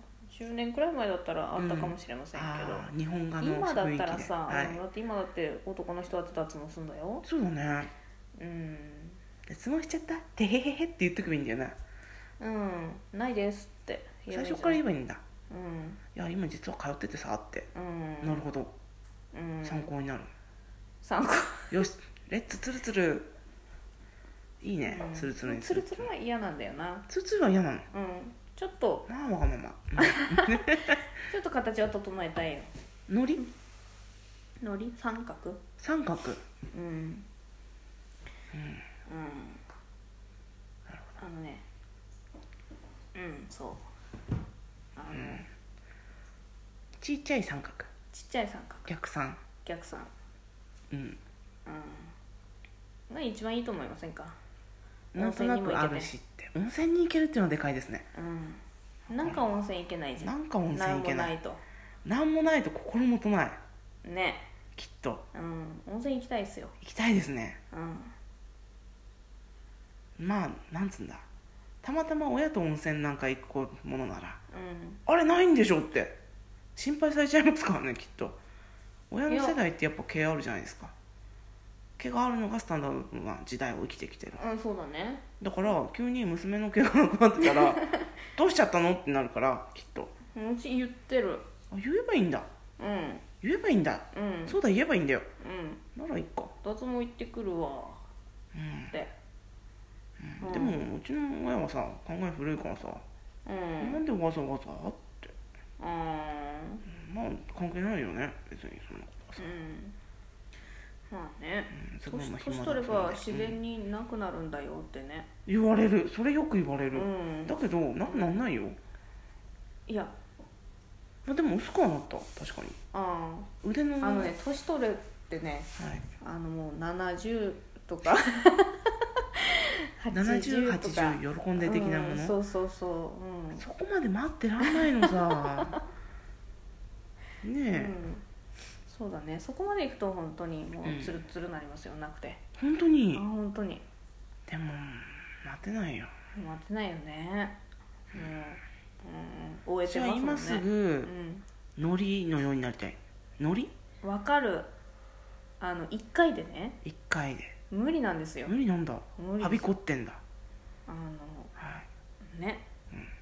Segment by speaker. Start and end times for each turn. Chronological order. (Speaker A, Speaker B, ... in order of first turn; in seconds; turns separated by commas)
Speaker A: 0.3-2.9, Speaker B: 1.6-4.8, Speaker A: 3.4-7.2, Speaker B: 7.2-7.9, Speaker A: 8.4-9.2, Speaker B: 9.4-11.8, Speaker A: 12.4-14.8, Speaker B: 14.3-15.2, Speaker A: 15.5-16.0, Speaker B: 16.1-17.7, Speaker A: 17.7-18.4, Speaker B: 18.2-18.7, Speaker A: 19.3-19.9, Speaker B: 19.6-20.3, Speaker A: 21.0-21.9, Speaker B: 21.7-23.3, Speaker B: 24.6-26.1, Speaker A: 24.9-27.1, Speaker B: 27.1-27.9, Speaker A: 27.9-29.1, Speaker B: 29.1-31.0, Speaker A: 30.0-32.7, Speaker B: 33.1-33.4, Speaker A: 34.6-35.6, Speaker B: 35.8-36.4, Speaker A: 36.7-37.2, Speaker B: 38.5-38.8, Speaker A: 39.1-39.6, Speaker A: 41.2-41.6, Speaker A: 43.1-43.9, Speaker A: 45.0-45.5, Speaker B: 45.1-45.5, Speaker B: 47.0-47.9, Speaker A: 48.1-48.9, Speaker B: 48.9-49.4, Speaker A: 49.6-50.1, Speaker B: 50.9-51.2, Speaker A: 51.6-52.1, Speaker A: 53.1-54.4, Speaker B: 55.1-58.0, Speaker A: 55.2-56.1, Speaker A: 58.1-61.6, Speaker B: 59.2-59.4, Speaker B: 60.2-61.3, Speaker B: 62.0-63.6, Speaker A: 64.0-64.5, Speaker B: 64.8-65.2, Speaker A: 65.3-66.7, Speaker B: 66.8-67.6, Speaker A: 67.7-68.1, Speaker B: 70.2-71.2, Speaker B: 71.8-74.4, Speaker A: 74.5-75.0, Speaker B: 75.0-76.2, Speaker B: 76.7-78.4, Speaker B: 79.1-80.9, Speaker A: 79.3-79.6, Speaker B: 82.0-84.4, Speaker A: 84.4-85.2, Speaker B: 85.4-90.1, Speaker A: 87.5-88.0, Speaker A: 90.3-91.5, Speaker B: 91.7-92.5, Speaker A: 92.8-93.3, Speaker B: 93.4-95.3, Speaker A: 94.1-94.6, Speaker A: 95.4-95.8, Speaker B: 95.9-96.5, Speaker A: 96.6-98.1, Speaker B: 98.5-98.9, Speaker B: 100.2-103.0, Speaker A: 100.4-100.8, Speaker A: 103.5-104.0, Speaker B: 103.8-105.3, Speaker A: 105.8-106.8, Speaker B: 106.8-109.6, Speaker A: 109.4-110.0, Speaker A: 111.1-115.3, Speaker B: 111.7-113.6, Speaker B: 115.5-118.8, Speaker A: 116.9-118.4, Speaker A: 119.9-120.1, Speaker B: 121.2-122.8, Speaker A: 122.9-133.6, Speaker B: 123.6-124.3, Speaker B: 125.8-126.0, Speaker B: 130.1-132.3, Speaker B: 133.6-135.8, Speaker A: 134.6-135.8, Speaker B: 137.4-138.0, Speaker A: 137.7-138.2, Speaker A: 138.9-142.4, Speaker B: 140.8-141.2, Speaker B: 142.6-143.2, Speaker A: 143.1-143.8, Speaker B: 144.5-146.1, Speaker A: 146.3-147.6, Speaker A: 148.1-151.4, Speaker B: 149.8-151.1, Speaker B: 151.8-153.7, Speaker A: 154.0-154.7, Speaker A: 155.6-156.8, Speaker B: 156.8-157.5, Speaker A: 157.7-158.5, Speaker B: 158.4-160.2, Speaker A: 159.2-159.8, Speaker A: 160.9-161.5, Speaker B: 161.6-161.8, Speaker A: 162.2-162.7